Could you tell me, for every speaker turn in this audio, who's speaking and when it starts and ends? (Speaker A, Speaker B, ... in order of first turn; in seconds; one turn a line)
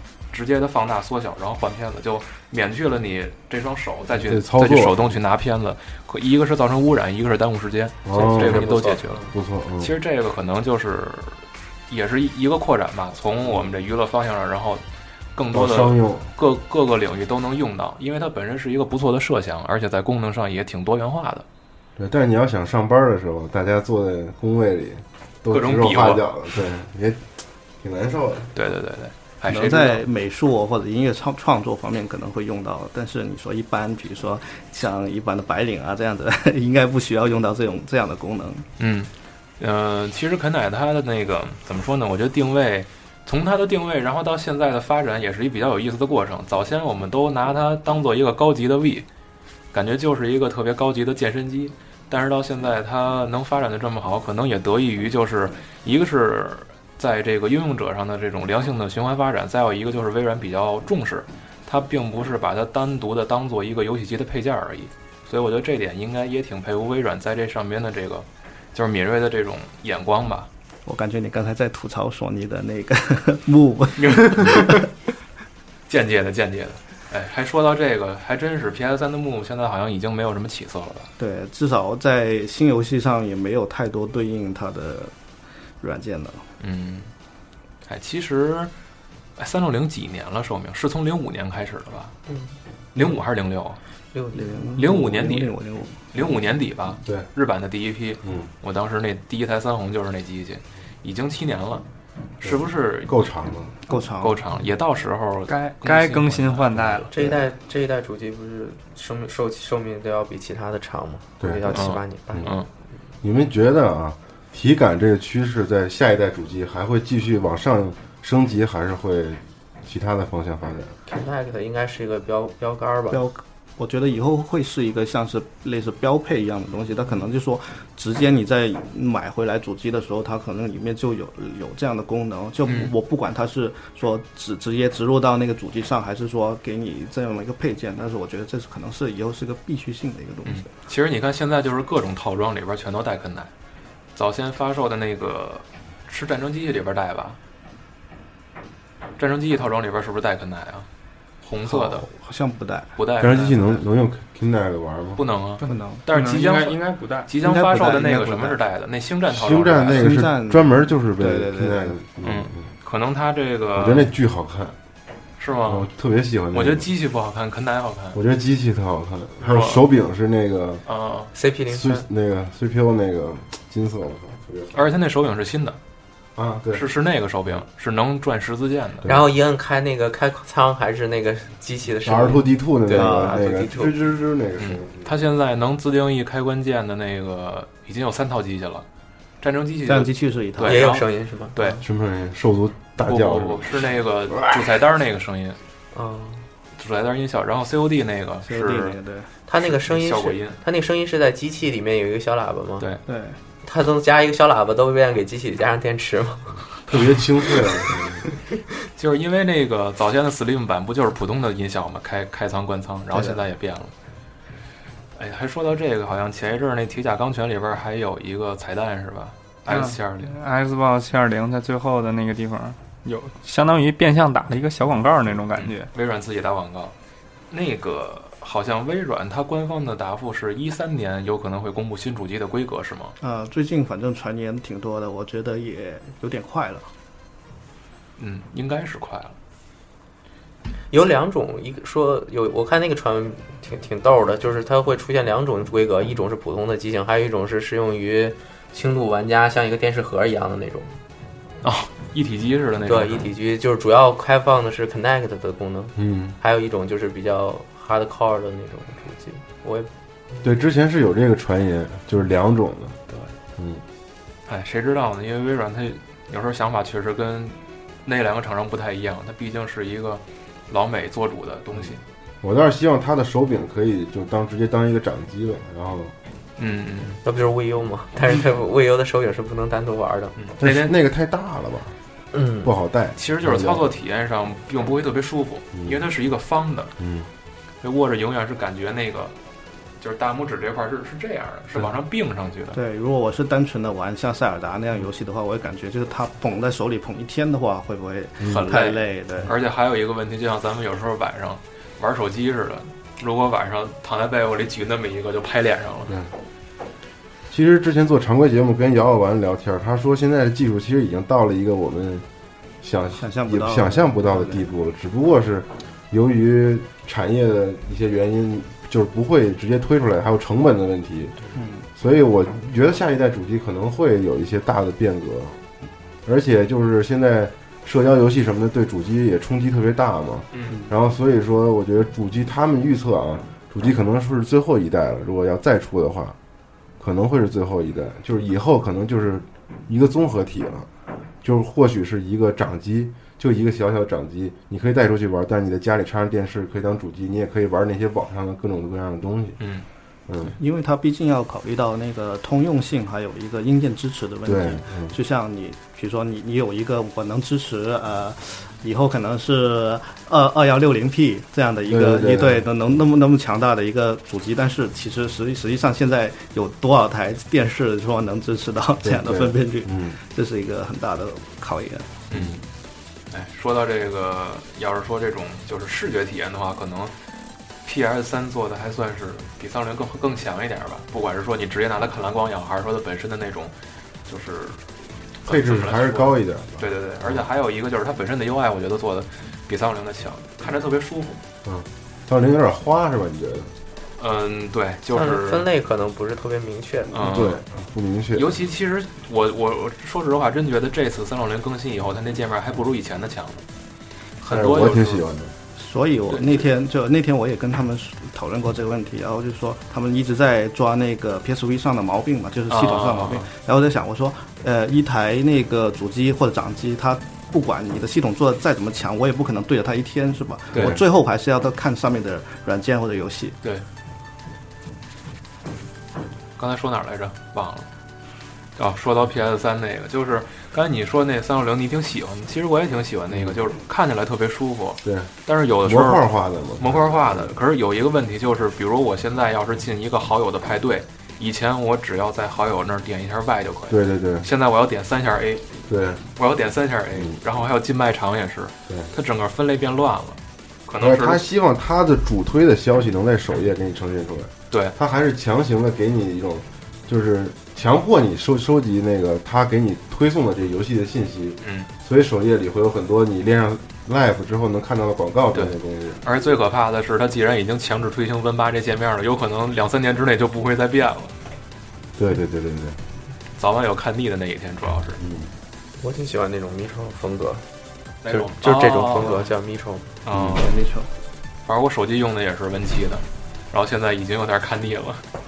Speaker A: 0.3-9.2
Speaker B: 4.1-5.2
Speaker B: 8.1-8.7
Speaker C: 8.1-9.3
Speaker B: 9.3-9.9
Speaker A: 9.8-14.8
Speaker B: 13.4-13.7
Speaker A: 15.3-21.4
Speaker B: 15.5-16.3
Speaker B: 22.0-27.2
Speaker A: 25.5-26.3
Speaker B: 27.8-28.6
Speaker A: 28.6-30.1
Speaker D: 29.5-38.7
Speaker A: 38.8-49.1
Speaker A: 49.7-70.5
Speaker D: 70.9-74.9
Speaker A: 74.0-74.8
Speaker A: 75.9-81.1
Speaker D: 81.2-85.1
Speaker D: 85.8-86.5
Speaker A: 86.6-87.1
Speaker A: 87.9-88.7
Speaker A: 89.4-92.1
Speaker C: 92.3-92.5
Speaker A: 93.0-93.8
Speaker C: 94.1-94.5
Speaker D: 94.3-96.3
Speaker A: 94.8-95.5
Speaker A: 96.1-101.8
Speaker B: 98.2-98.5
Speaker A: 102.4-103.1
Speaker B: 102.4-103.7
Speaker D: 103.9-104.5
Speaker A: 104.2-107.0
Speaker E: 105.5-107.2
Speaker C: 107.1-112.5
Speaker B: 111.4-112.5
Speaker A: 111.7-112.7
Speaker B: 113.2-120.9
Speaker C: 121.1-123.2
Speaker D: 123.1-140.7
Speaker A: 132.7-132.9
Speaker A: 140.4-143.5
Speaker A: 144.2-147.4
Speaker A: 149.2-150.9
Speaker A: 151.4-152.1
Speaker D: 151.7-153.0
Speaker A: 153.0-153.8
Speaker B: 153.2-155.2
Speaker A: 155.2-160.2
Speaker E: 155.6-157.3
Speaker D: 155.7-156.0
Speaker D: 157.4-158.6
Speaker B: 159.3-162.7
Speaker D: 159.9-162.0
Speaker A: 162.2-164.1
Speaker B: 163.7-164.8
Speaker A: 165.4-165.9
Speaker B: 165.7-166.9
Speaker A: 166.5-168.2
Speaker B: 168.1-170.8
Speaker A: 169.4-169.9
Speaker A: 170.9-171.3
Speaker C: 171.3-172.1
Speaker B: 171.7-174.9
Speaker A: 174.7-175.8
Speaker B: 176.4-176.8
Speaker A: 176.7-179.1
Speaker C: 179.1-183.9
Speaker B: 182.0-185.2
Speaker D: 182.9-183.4
Speaker A: 184.6-188.9
Speaker A: 189.4-191.8
Speaker D: 189.9-190.9
Speaker C: 190.7-191.8
Speaker B: 191.8-193.7
Speaker A: 193.0-195.6
Speaker C: 195.9-196.4
Speaker A: 196.8-199.0
Speaker D: 198.4-199.3
Speaker C: 199.5-202.9
Speaker A: 199.6-200.6
Speaker D: 203.1-203.4
Speaker C: 203.6-206.7
Speaker B: 206.9-208.2
Speaker A: 208.9-213.9
Speaker D: 213.1-213.4
Speaker A: 215.2-220.3
Speaker E: 219.7-225.9
Speaker A: 225.5-226.9
Speaker A: 227.5-233.2
Speaker D: 233.2-236.9
Speaker A: 238.2-239.3
Speaker C: 240.9-250.9
Speaker A: 251.6-253.3
Speaker C: 252.9-259.9
Speaker B: 256.0-256.4
Speaker B: 260.4-263.0
Speaker B: 263.6-263.8
Speaker A: 264.5-272.0
Speaker B: 272.4-276.1
Speaker A: 276.6-277.2
Speaker C: 277.2-280.3
Speaker A: 280.4-280.9
Speaker B: 280.6-281.9
Speaker C: 282.3-282.7
Speaker B: 282.6-283.9
Speaker A: 283.2-286.9
Speaker B: 285.8-286.0
Speaker B: 287.0-287.3
Speaker A: 287.8-289.4
Speaker A: 290.0-292.8
Speaker D: 292.7-299.5
Speaker A: 298.5-306.1
Speaker B: 307.5-312.3
Speaker B: 312.8-321.4
Speaker D: 313.2-314.7
Speaker D: 321.5-321.9
Speaker B: 322.0-325.6
Speaker B: 326.2-336.4
Speaker A: 330.5-330.8
Speaker B: 337.0-340.9
Speaker B: 341.4-349.6
Speaker A: 349.6-349.9
Speaker B: 350.3-350.6
Speaker D: 350.6-372.1
Speaker B: 354.4-355.2
Speaker B: 361.9-362.7
Speaker B: 369.0-370.2
Speaker A: 372.3-372.6
Speaker B: 372.3-372.6
Speaker A: 373.3-377.1
Speaker A: 377.9-383.8
Speaker A: 384.3-384.8
Speaker A: 385.4-391.4
Speaker B: 385.5-387.5
Speaker B: 391.6-393.7
Speaker A: 394.2-395.7
Speaker C: 395.1-397.1
Speaker A: 397.1-397.6
Speaker B: 397.1-398.5
Speaker A: 398.4-403.6
Speaker A: 404.4-405.2
Speaker B: 404.5-405.5
Speaker D: 405.8-423.6
Speaker A: 406.3-406.7
Speaker A: 412.7-413.5
Speaker A: 420.7-421.0
Speaker A: 426.6-427.9
Speaker A: 428.8-436.2
Speaker B: 433.3-433.6
Speaker B: 435.0-435.3
Speaker B: 435.8-437.5
Speaker A: 436.8-451.4
Speaker B: 443.9-444.5
Speaker B: 445.9-446.2
Speaker B: 451.0-466.2
Speaker A: 461.6-461.9
Speaker A: 465.5-471.3
Speaker B: 472.2-473.0
Speaker A: 473.6-475.2
Speaker B: 475.2-475.5
Speaker C: 476.0-477.6
Speaker A: 478.2-479.5
Speaker C: 478.3-480.1
Speaker A: 480.2-480.7
Speaker B: 480.3-480.7
Speaker D: 480.6-481.1
Speaker A: 481.7-485.2